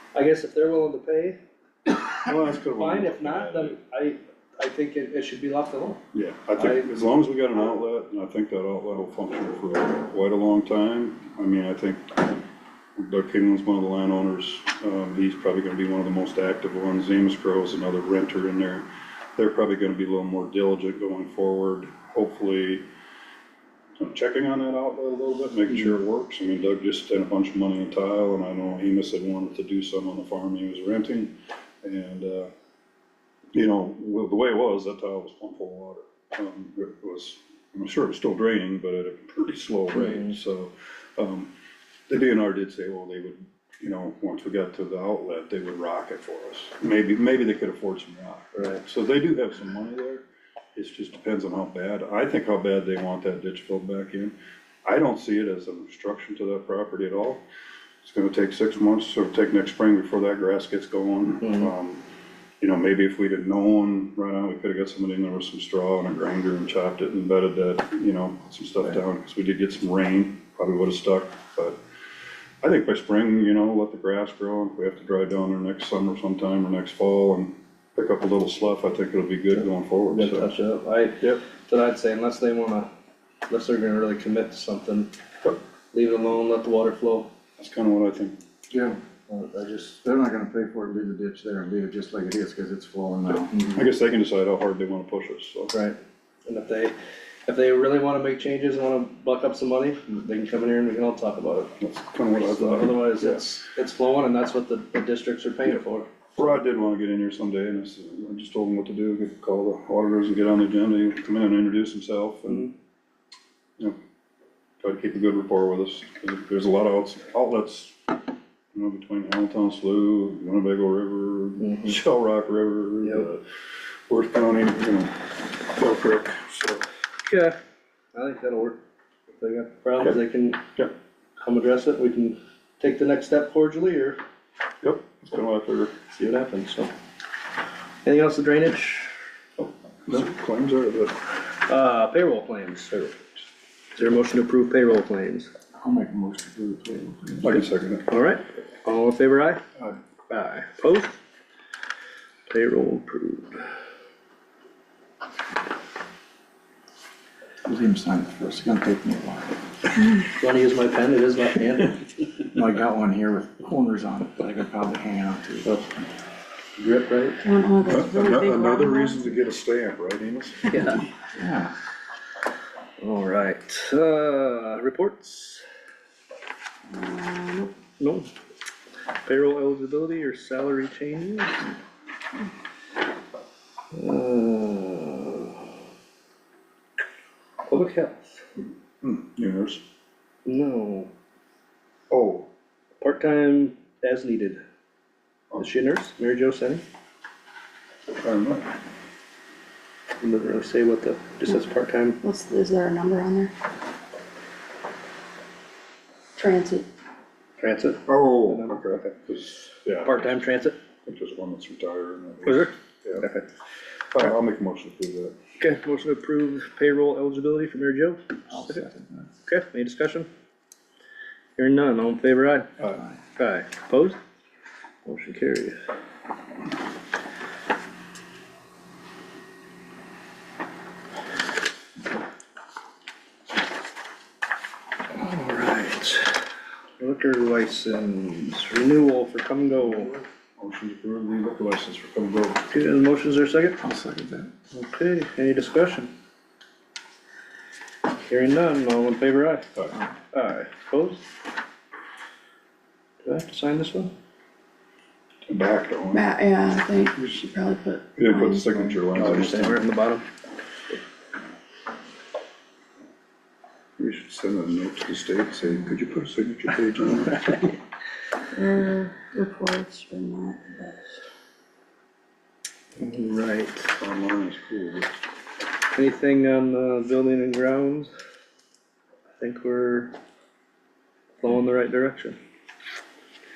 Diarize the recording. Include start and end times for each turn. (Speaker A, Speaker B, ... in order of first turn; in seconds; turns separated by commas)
Speaker A: 0.1-1.4, Speaker B: 2.2-3.8, Speaker A: 2.8-6.0, Speaker B: 6.1-12.4, Speaker A: 6.6-7.0, Speaker B: 13.0-22.8, Speaker B: 24.0-32.5, Speaker B: 33.5-41.5, Speaker A: 39.9-40.4, Speaker B: 42.1-57.4, Speaker A: 48.5-48.8, Speaker B: 58.0-62.0, Speaker A: 61.4-61.7, Speaker B: 62.6-71.8, Speaker B: 72.6-80.5, Speaker A: 80.1-82.9, Speaker A: 83.5-85.1, Speaker A: 85.9-87.3, Speaker B: 87.6-88.4, Speaker C: 88.7-89.0, Speaker A: 89.3-90.0, Speaker C: 90.0-93.5, Speaker B: 93.7-95.7, Speaker A: 95.7-96.9, Speaker A: 97.5-101.7, Speaker B: 101.8-103.5, Speaker A: 102.3-106.1, Speaker B: 106.4-112.7, Speaker B: 114.8-118.2, Speaker B: 118.7-123.4, Speaker A: 121.6-122.0, Speaker B: 124.1-126.8, Speaker A: 127.3-127.5, Speaker A: 128.1-128.8, Speaker A: 129.4-130.6, Speaker A: 131.4-134.2, Speaker B: 134.8-135.9, Speaker A: 136.1-136.9, Speaker A: 138.0-139.1, Speaker B: 139.6-141.1, Speaker A: 141.7-143.2, Speaker A: 143.9-145.5, Speaker C: 145.8-147.5, Speaker B: 147.4-148.1, Speaker A: 148.1-149.6, Speaker A: 150.3-151.2, Speaker A: 152.5-153.6, Speaker C: 157.7-159.6, Speaker A: 160.2-162.0, Speaker C: 162.5-166.1, Speaker A: 166.8-167.4, Speaker D: 167.4-169.2, Speaker B: 167.8-170.8, Speaker A: 170.7-171.0, Speaker C: 171.3-171.7, Speaker A: 173.0-175.6, Speaker D: 176.9-177.7, Speaker A: 178.0-178.3, Speaker A: 179.2-181.7, Speaker A: 183.9-185.6, Speaker A: 187.7-188.4, Speaker B: 189.0-189.8, Speaker A: 190.4-191.1, Speaker B: 192.1-192.5, Speaker A: 193.0-194.6, Speaker A: 195.6-196.8, Speaker B: 198.2-198.7, Speaker A: 200.2-202.2, Speaker D: 202.2-203.5, Speaker D: 206.3-206.8, Speaker A: 207.6-209.1, Speaker B: 208.1-210.4, Speaker A: 210.0-210.8, Speaker B: 211.1-213.2, Speaker A: 212.4-213.5, Speaker B: 214.1-215.3, Speaker A: 215.6-218.9, Speaker C: 218.5-219.3, Speaker A: 219.5-220.3, Speaker A: 221.6-222.7, Speaker A: 223.4-224.2, Speaker A: 225.0-225.8, Speaker A: 235.1-236.4, Speaker A: 237.0-240.1, Speaker B: 240.0-242.6, Speaker A: 242.7-243.8, Speaker C: 243.8-244.5, Speaker A: 244.7-246.1, Speaker A: 248.2-249.7, Speaker A: 250.3-251.2, Speaker A: 253.2-254.1, Speaker B: 255.5-256.2, Speaker D: 256.1-258.9, Speaker B: 258.2-259.8, Speaker A: 259.1-260.2, Speaker B: 264.0-267.6, Speaker D: 268.5-271.0, Speaker A: 273.0-273.9, Speaker B: 274.0-275.2, Speaker A: 275.9-278.1, Speaker A: 279.4-280.1, Speaker A: 281.4-282.4